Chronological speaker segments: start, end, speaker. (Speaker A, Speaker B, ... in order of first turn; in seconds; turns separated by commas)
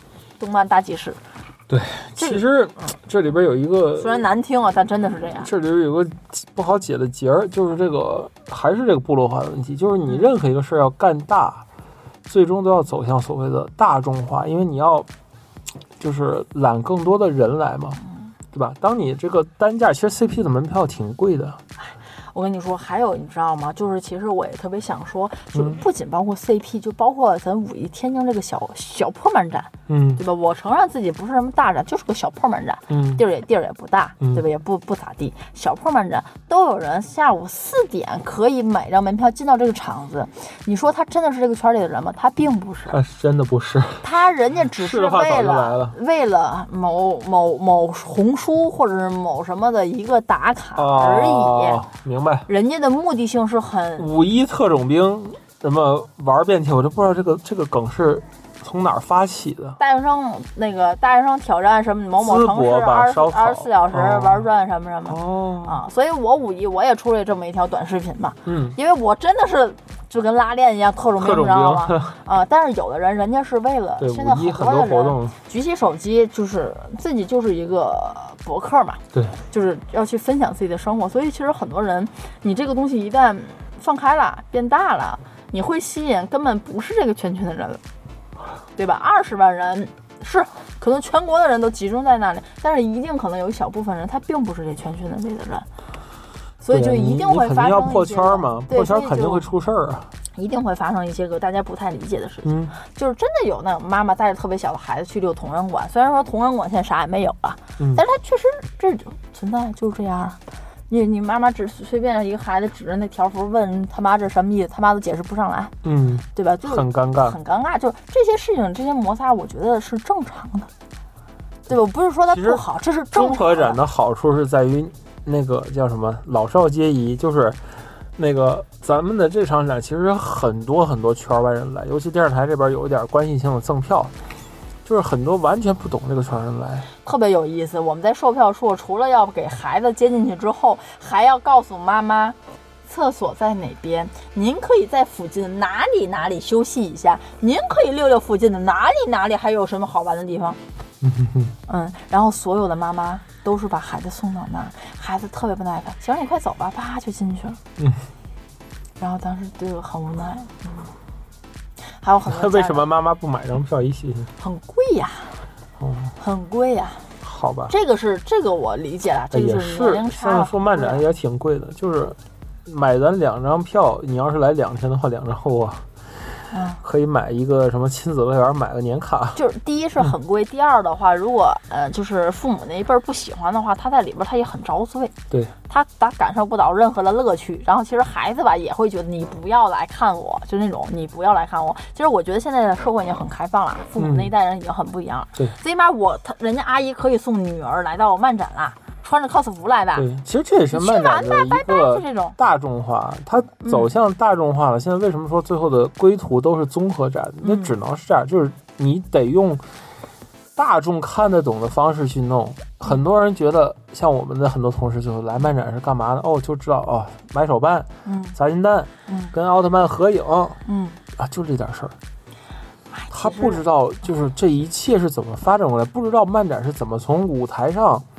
Speaker A: 0.4-1.2, Speaker B: 1.7-4.2, Speaker A: 2.2-2.4, Speaker A: 4.0-5.5, Speaker B: 5.4-11.6, Speaker A: 10.0-10.3, Speaker B: 12.3-15.1, Speaker B: 16.0-18.0, Speaker A: 18.0-18.3, Speaker B: 18.5-21.6, Speaker A: 21.8-43.0, Speaker B: 29.9-30.2, Speaker B: 32.9-33.2, Speaker B: 42.9-44.0, Speaker A: 44.0-51.8, Speaker B: 44.8-46.0, Speaker B: 50.8-52.5, Speaker A: 52.5-54.1, Speaker B: 54.0-59.8, Speaker A: 59.8-87.8, Speaker B: 62.2-64.4, Speaker B: 65.0-65.8, Speaker B: 68.5-68.8, Speaker B: 71.2-72.2, Speaker B: 74.0-75.3, Speaker B: 79.1-79.4, Speaker A: 88.7-95.7, Speaker A: 96.6-99.5, Speaker B: 96.7-100.1, Speaker A: 100.3-115.7, Speaker B: 102.4-102.7, Speaker B: 115.8-117.4, Speaker A: 116.3-120.7, Speaker A: 121.7-123.8, Speaker B: 122.3-127.6, Speaker B: 128.2-134.1, Speaker B: 134.8-136.9, Speaker A: 137.0-150.6, Speaker B: 151.0-151.5, Speaker A: 151.7-157.6, Speaker B: 157.8-158.0, Speaker A: 159.0-160.9, Speaker A: 161.9-162.8, Speaker B: 162.3-164.3, Speaker A: 164.4-165.4, Speaker B: 165.8-166.1, Speaker A: 166.2-167.1, Speaker B: 167.2-167.7, Speaker A: 167.7-171.0, Speaker B: 169.3-175.8, Speaker A: 176.5-176.8, Speaker B: 176.8-179.4, Speaker A: 179.3-185.1, Speaker A: 185.7-200.1, Speaker B: 194.0-194.3, Speaker B: 199.9-209.6, Speaker A: 200.7-202.4, Speaker A: 203.6-203.9, Speaker A: 207.4-207.7, Speaker B: 210.6-220.6, Speaker A: 218.0-218.4, Speaker A: 219.1-219.3, Speaker A: 220.7-221.0, Speaker B: 221.2-221.9, Speaker A: 222.9-223.6, Speaker B: 223.1-228.0